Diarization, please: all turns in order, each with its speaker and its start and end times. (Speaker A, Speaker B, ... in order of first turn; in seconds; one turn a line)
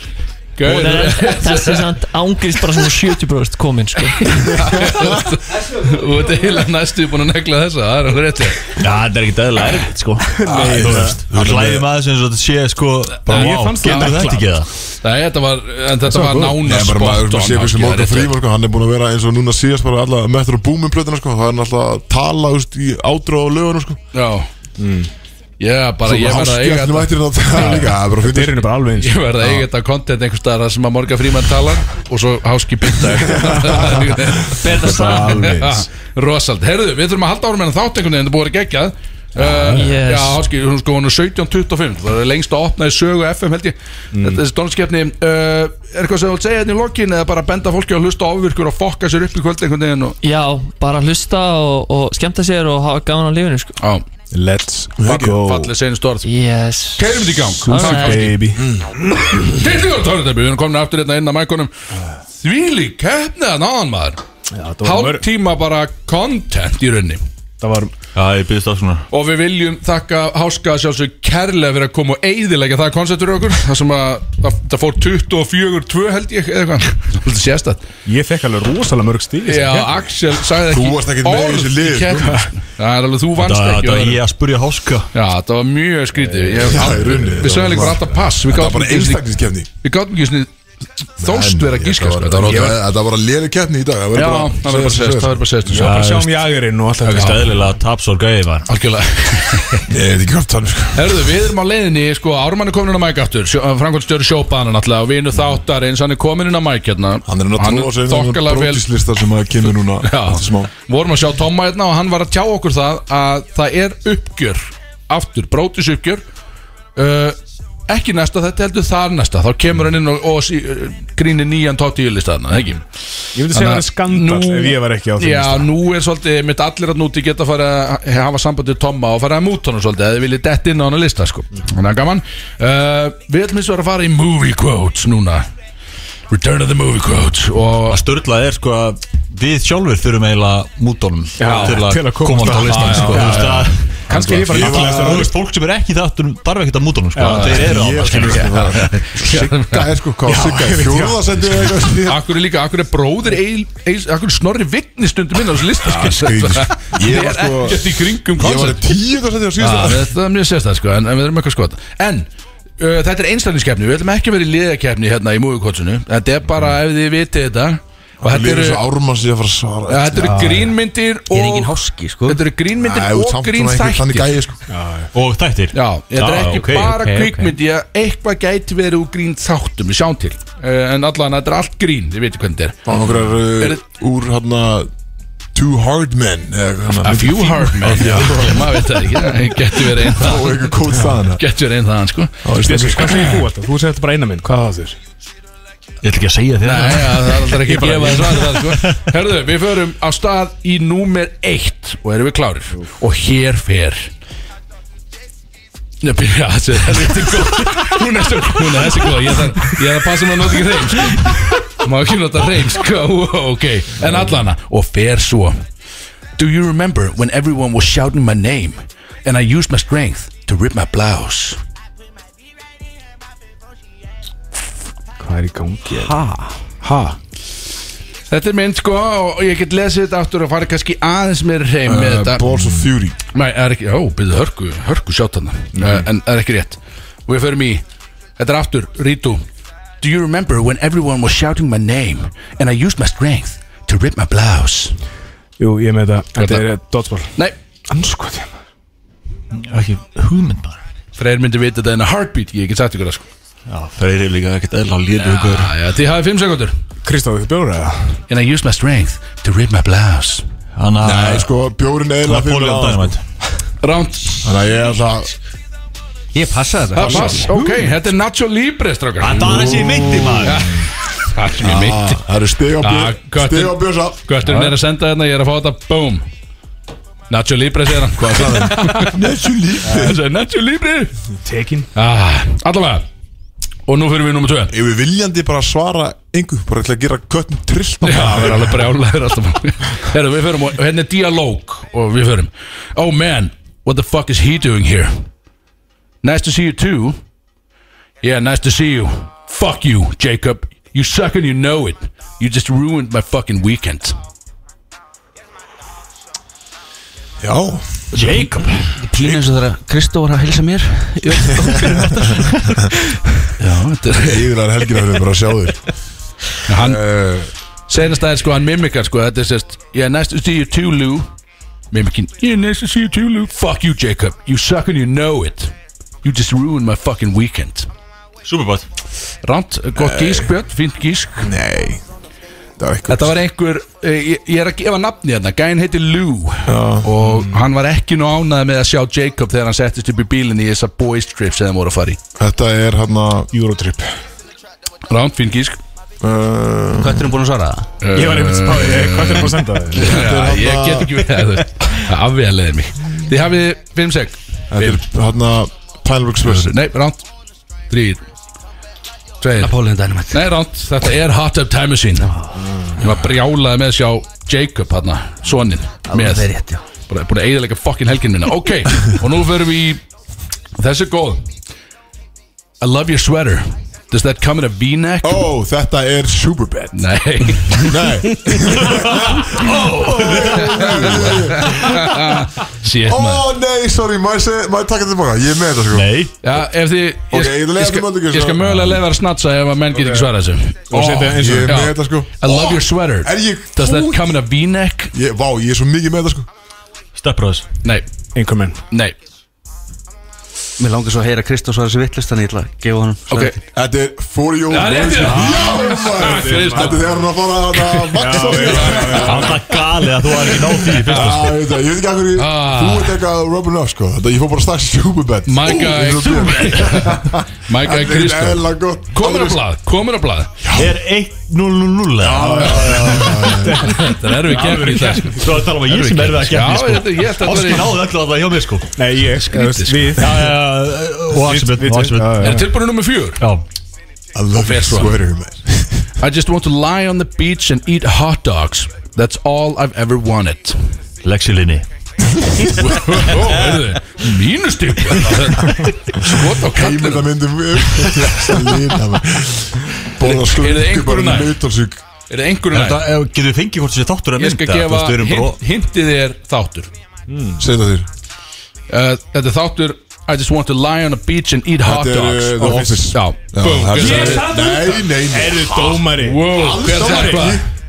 Speaker A: 0.6-1.8
Speaker B: 0.6-4.8
Speaker A: 4.5-8.7
Speaker C: 8.7-14.7
Speaker D: 10.3-11.2
Speaker E: 10.4-11.9
Speaker D: 13.3-14.6
Speaker A: 15.0-18.3
Speaker D: 16.1-16.6
Speaker E: 16.6-24.0
Speaker A: 24.1-24.5
Speaker D: 24.8-25.1
Speaker A: 25.6-27.7
Speaker E: 26.0-28.6
Speaker D: 27.5-29.6
Speaker A: 29.0-50.2
Speaker B: 34.5-35.6
Speaker D: 34.7-35.8
Speaker D: 39.4-39.9
Speaker B: 39.4-40.4
Speaker D: 44.1-44.4
Speaker B: 50.2-53.8
Speaker A: 53.8-54.0
Speaker D: 54.3-55.7
Speaker E: 55.0-55.4
Speaker A: 55.0-56.3
Speaker B: 56.2-57.1
Speaker A: 57.0-58.4
Speaker D: 57.6-58.6
Speaker B: 57.6-58.3
Speaker E: 58.5-59.5
Speaker A: 59.3-61.7
Speaker A: 62.4-64.2
Speaker D: 64.5-65.2
Speaker A: 64.8-67.2
Speaker D: 67.6-67.9
Speaker C: 68.1-69.1
Speaker A: 69.1-77.8
Speaker D: 78.0-79.9
Speaker A: 79.4-84.2
Speaker E: 80.6-82.5
Speaker C: 83.4-85.1
Speaker A: 85.1-89.3
Speaker D: 86.2-87.0
Speaker E: 86.6-89.7
Speaker A: 89.8-90.5
Speaker A: 91.2-92.8
Speaker E: 91.2-95.5
Speaker D: 92.4-92.7
Speaker A: 94.1-96.0
Speaker D: 95.7-97.6
Speaker C: 95.8-96.5
Speaker C: 97.0-98.7
Speaker A: 98.7-99.8
Speaker E: 99.9-101.3
Speaker A: 100.9-108.8
Speaker E: 107.3-110.7
Speaker A: 110.0-116.2
Speaker A: 117.0-117.4
Speaker A: 117.9-122.8
Speaker D: 123.3-125.7
Speaker A: 123.5-135.5
Speaker A: 136.3-138.0
Speaker C: 137.9-148.8
Speaker D: 141.4-145.3
Speaker A: 141.4-141.9
Speaker A: 142.4-143.7
Speaker E: 144.4-145.3
Speaker D: 147.1-147.7
Speaker A: 147.2-149.8
Speaker E: 147.5-152.2
Speaker D: 150.2-151.9
Speaker A: 152.1-158.9
Speaker E: 155.8-160.1
Speaker A: 159.6-162.3
Speaker A: 162.8-168.8
Speaker E: 168.2-170.6
Speaker A: 169.9-171.7
Speaker D: 170.2-170.6
Speaker F: 171.3-172.4
Speaker A: 172.2-174.4
Speaker E: 172.8-174.6
Speaker D: 174.7-175.1
Speaker C: 175.1-177.0
Speaker A: 175.7-182.8
Speaker F: 176.9-177.5
Speaker E: 182.8-184.9
Speaker E: 185.5-191.4
Speaker A: 187.0-190.7
Speaker A: 191.3-192.4
Speaker E: 192.4-193.4
Speaker D: 192.6-194.9
Speaker C: 196.0-199.0
Speaker A: 196.6-204.1
Speaker A: 206.0-215.6
Speaker A: 216.4-221.6
Speaker D: 225.2-227.2
Speaker A: 228.3-232.6
Speaker E: 231.8-233.2
Speaker A: 233.3-237.8
Speaker A: 238.4-239.4
Speaker A: 240.0-244.9
Speaker D: 245.6-247.4
Speaker A: 246.4-246.6
Speaker D: 247.9-248.5
Speaker C: 249.5-250.8
Speaker A: 251.2-253.2
Speaker C: 253.7-255.7
Speaker A: 255.2-256.7
Speaker D: 257.0-258.2
Speaker A: 258.3-260.4
Speaker C: 260.8-261.5
Speaker E: 261.0-263.2
Speaker C: 262.2-263.2
Speaker A: 263.8-264.5
Speaker E: 264.4-265.3
Speaker F: 266.3-267.5
Speaker A: 266.9-269.9
Speaker D: 267.4-267.8
Speaker C: 269.2-270.8
Speaker E: 269.7-270.6
Speaker A: 270.4-272.2
Speaker E: 271.6-274.2
Speaker A: 272.8-276.2
Speaker D: 274.4-274.7
Speaker A: 277.3-279.2
Speaker E: 278.1-280.2
Speaker A: 279.8-281.1
Speaker D: 281.4-281.9
Speaker A: 281.9-283.1
Speaker A: 283.9-284.7
Speaker E: 284.7-288.9
Speaker A: 288.0-295.3
Speaker A: 296.2-297.2
Speaker A: 298.2-304.2
Speaker E: 307.4-308.3
Speaker C: 308.1-308.9
Speaker F: 308.9-312.8
Speaker A: 313.6-314.5
Speaker E: 314.2-315.9
Speaker A: 316.6-317.1
Speaker E: 316.8-317.5
Speaker A: 317.9-321.3
Speaker A: 321.9-327.9
Speaker C: 328.4-328.9
Speaker A: 329.4-331.5
Speaker E: 329.9-330.5
Speaker E: 331.4-332.0
Speaker E: 332.8-333.3
Speaker A: 333.1-342.2
Speaker E: 336.6-337.1
Speaker E: 342.4-343.5
Speaker D: 343.5-344.1
Speaker A: 345.1-345.8
Speaker E: 346.2-347.3
Speaker F: 347.0-347.9
Speaker A: 348.0-355.0
Speaker D: 348.1-350.2
Speaker E: 349.9-351.3
Speaker E: 354.7-356.8
Speaker A: 356.4-357.3
Speaker A: 357.9-358.2
Speaker A: 359.4-359.7
Speaker F: 359.6-360.4
Speaker A: 360.3-362.3
Speaker F: 362.2-362.6
Speaker A: 362.9-370.0
Speaker F: 366.1-366.8
Speaker A: 370.8-371.5
Speaker A: 372.8-375.5
Speaker E: 375.2-377.0
Speaker A: 376.9-378.1
Speaker E: 377.7-382.3
Speaker C: 379.0-381.1
Speaker A: 380.3-383.5
Speaker E: 383.1-386.1
Speaker C: 385.9-386.3
Speaker A: 386.4-395.1
Speaker E: 387.3-388.7
Speaker D: 390.9-391.8
Speaker E: 390.9-394.4
Speaker E: 395.1-396.5
Speaker C: 397.1-397.7
Speaker D: 398.3-398.8
Speaker A: 398.9-399.1
Speaker F: 400.8-403.6
Speaker A: 403.3-403.6
Speaker E: 403.7-409.6
Speaker A: 404.7-407.0
Speaker D: 405.4-407.1
Speaker A: 407.7-409.3
Speaker D: 408.2-409.7
Speaker C: 408.9-411.5
Speaker E: 410.9-419.6
Speaker A: 411.1-411.5
Speaker A: 412.3-413.2
Speaker A: 415.4-420.5
Speaker E: 420.6-421.0
Speaker C: 420.7-422.9
Speaker E: 422.2-424.1
Speaker D: 422.4-425.6
Speaker A: 422.6-423.1
Speaker A: 423.9-428.0
Speaker C: 424.4-428.9
Speaker D: 429.0-430.6
Speaker A: 429.4-430.2
Speaker C: 430.1-432.7
Speaker D: 431.4-432.7
Speaker A: 432.4-433.4
Speaker C: 433.4-433.6
Speaker E: 434.3-436.1
Speaker A: 434.6-435.2
Speaker A: 436.2-440.8
Speaker C: 441.2-441.9
Speaker A: 442.7-448.7
Speaker E: 446.3-452.0
Speaker A: 450.2-451.6
Speaker A: 452.3-453.1
Speaker C: 452.7-455.6
Speaker A: 454.4-456.9
Speaker D: 457.3-457.6
Speaker E: 457.6-458.1
Speaker A: 458.9-464.5
Speaker E: 461.8-467.6
Speaker D: 462.6-463.1
Speaker D: 463.9-467.5
Speaker A: 465.9-467.6